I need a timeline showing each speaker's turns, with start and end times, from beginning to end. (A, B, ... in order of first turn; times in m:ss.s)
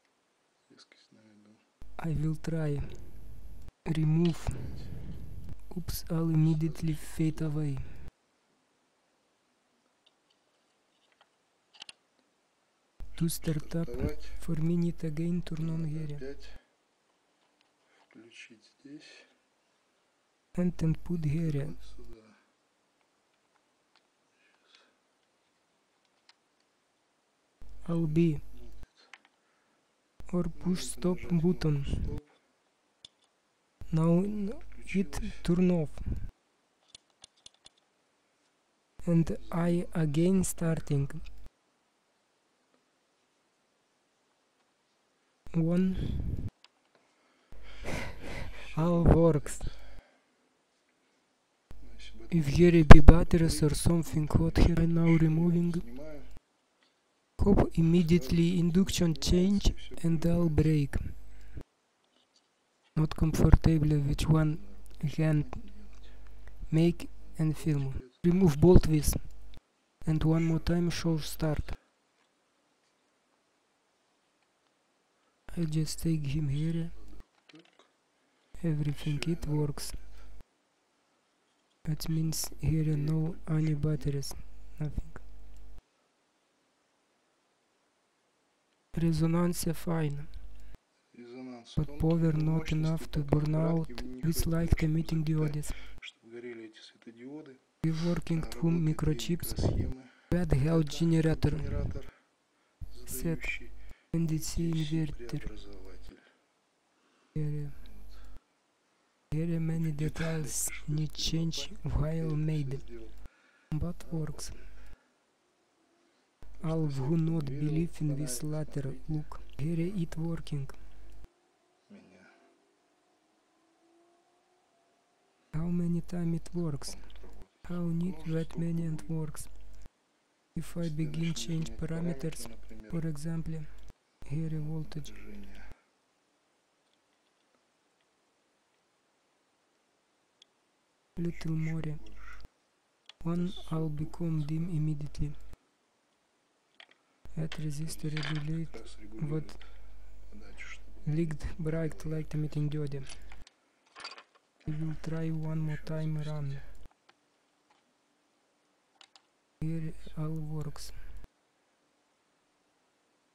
0:00.6-0:01.6 A
0:02.0-0:08.0 B
0:04.4-0:05.0 A
0:06.4-0:07.5 A
0:13.1-0:16.2 B
0:13.2-0:14.4 A
0:15.6-0:16.6 A
0:18.1-0:19.3 A
0:20.5-0:21.8 B
0:21.1-0:22.4 A
0:27.8-0:29.1 A
0:27.8-0:28.4 B
0:30.2-0:32.1 B
0:30.6-0:32.4 A
0:33.9-0:36.2 B
0:34.2-0:35.5 A
0:39.0-0:41.3 B
0:39.1-0:41.1 A
0:45.5-0:46.4 B
0:48.5-0:49.9 A
0:48.5-0:49.8 B
0:51.8-0:56.3 A
0:52.3-0:55.8 B
0:57.4-1:01.4 B
0:57.8-1:00.8 A
1:02.9-1:06.0 B
1:04.5-1:08.2 A
1:06.6-1:11.7 B
1:10.3-1:10.8 A
1:15.5-1:17.0 B
1:16.6-1:17.9 A
1:18.6-1:20.0 B
1:18.9-1:20.3 A
1:21.8-1:25.6 B
1:22.1-1:24.2 A
1:28.9-1:30.6 B
1:31.1-1:42.3 A
1:31.8-1:35.8 B
1:37.8-1:42.0 B
1:42.8-1:46.3 A
1:43.0-1:45.5 B
1:47.3-1:47.8 B
1:47.7-1:48.3 A
1:49.3-1:54.8 B
1:49.7-1:53.3 A
1:54.0-1:54.8 A
1:56.5-2:00.0 A
1:56.6-2:00.9 B
2:01.9-2:02.4 A
2:05.5-2:09.6 B
2:06.8-2:09.2 A
2:10.5-2:15.1 B
2:10.8-2:13.0 A
2:14.5-2:15.6 A
2:21.2-2:22.0 B
2:21.2-2:22.4 A
2:23.2-2:25.4 B
2:23.3-2:24.9 A
2:27.3-2:29.7 B
2:27.8-2:32.9 A
2:31.0-2:33.3 B
2:34.6-2:36.7 A
2:34.6-2:36.7 B
2:39.6-2:41.1 B